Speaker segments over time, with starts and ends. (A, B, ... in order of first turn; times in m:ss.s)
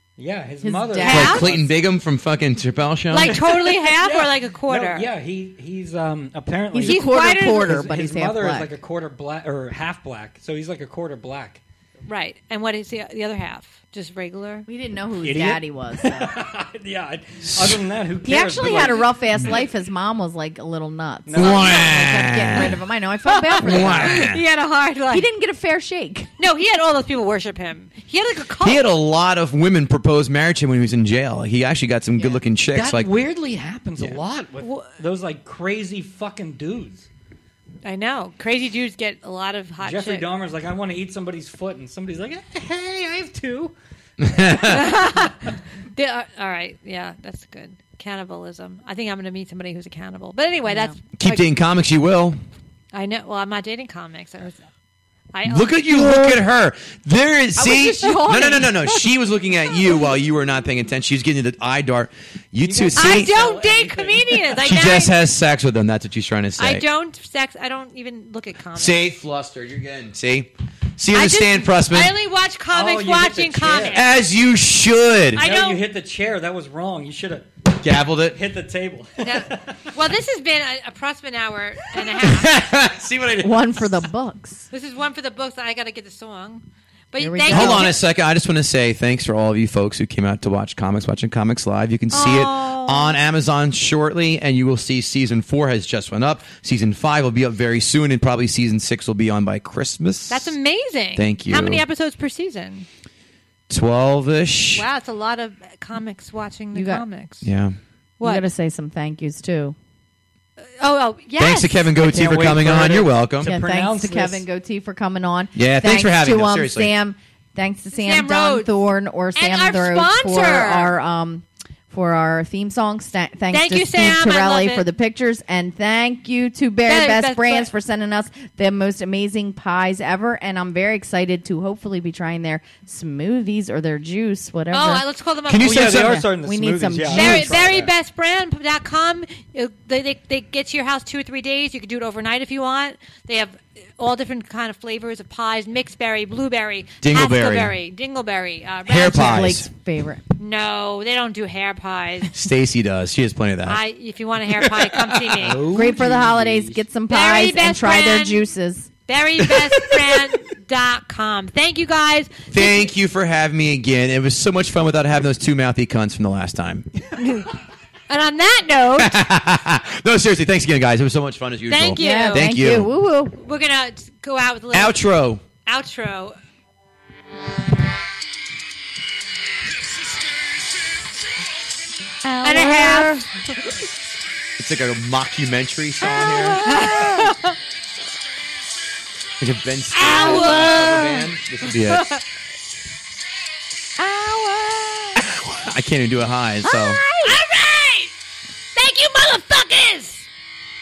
0:00.2-0:01.8 A
0:00.6-0:01.5 B
0:01.0-0:01.5 C
0:01.0-0:03.4 D
0:03.1-0:05.1 C
0:03.1-0:11.6 A
0:06.7-0:08.7 B
0:06.8-0:07.8 C
0:12.1-0:14.7 C
0:14.7-0:16.4 B
0:15.2-0:19.2 A
0:18.2-0:24.4 B
0:21.3-0:21.7 A
0:21.4-0:22.8 D
0:21.7-0:22.0 C
0:23.2-0:25.3 C
0:23.6-0:24.4 D
0:25.1-0:26.3 B
0:26.4-0:28.8 C
0:28.6-0:33.1 D
0:32.7-0:37.1 A
0:34.6-0:34.9 C
0:37.8-0:40.3 C
0:39.8-0:43.7 A
0:44.2-0:44.9 D
0:44.6-0:51.5 C
0:50.7-0:51.0 B
0:51.2-0:52.4 D
0:52.9-0:54.6 C
0:55.3-0:56.4 C
0:55.4-1:03.4 D
0:57.6-0:59.0 B
0:57.6-0:58.8 C
1:02.6-1:04.6 A
1:03.0-1:05.2 C
1:04.6-1:06.8 D
1:06.6-1:09.1 C
1:08.8-1:12.2 D
1:11.1-1:14.0 C
1:12.7-1:14.1 A
1:13.9-1:15.4 D
1:15.4-1:15.8 C
1:15.4-1:17.7 A
1:17.8-1:18.4 D
1:18.3-1:19.8 A
1:19.2-1:22.6 C
1:22.1-1:23.9 D
1:23.4-1:24.7 B
1:24.7-1:28.0 C
1:27.2-1:28.0 B
1:27.5-1:40.5 D
1:32.1-1:33.2 C
1:40.3-1:42.9 C
1:41.2-1:41.8 D
1:43.7-1:44.8 D
1:44.7-1:47.5 C
1:46.7-1:47.0 B
1:47.4-1:47.8 D
1:48.2-1:48.4 C
1:48.2-1:49.8 B
1:50.8-1:51.9 C
1:51.4-1:53.5 D
1:52.0-1:54.4 A
1:53.4-2:15.1 B
1:55.6-1:56.9 D
1:57.9-1:58.8 C
1:59.4-2:00.9 C
2:03.5-2:04.8 C
2:06.9-2:07.7 C
2:14.7-2:16.0 C
2:15.5-2:16.3 D
2:15.6-2:17.9 A
2:15.9-2:17.7 B
2:17.1-2:29.5 C
2:27.0-2:27.7 D
2:28.9-2:29.7 D
2:28.9-2:30.2 B
2:30.4-2:32.4 C
2:32.3-2:33.8 D
2:33.6-2:35.6 C
2:34.6-2:35.9 D
2:35.4-2:36.8 A
2:35.7-2:38.9 B
2:37.1-2:38.4 C
2:39.1-2:42.9 C
2:39.5-2:40.2 D
2:42.5-2:46.9 D
2:47.2-2:47.5 C
2:48.1-2:49.2 C
2:49.0-2:52.9 D
2:51.7-2:52.5 C
2:52.0-2:53.4 B
2:53.3-2:55.0 C
2:54.7-2:55.4 D
2:55.6-2:56.4 C
3:02.2-3:03.5 B
3:02.4-3:03.2 C
3:04.6-3:06.8 D
3:06.2-3:07.6 C
3:06.7-3:07.3 B
3:09.4-3:12.2 D
3:09.9-3:11.2 C
3:10.1-3:11.2 B
3:14.0-3:15.2 B
3:15.2-3:17.0 D
3:16.6-3:17.4 B
3:17.2-3:18.1 C
3:18.8-3:20.2 C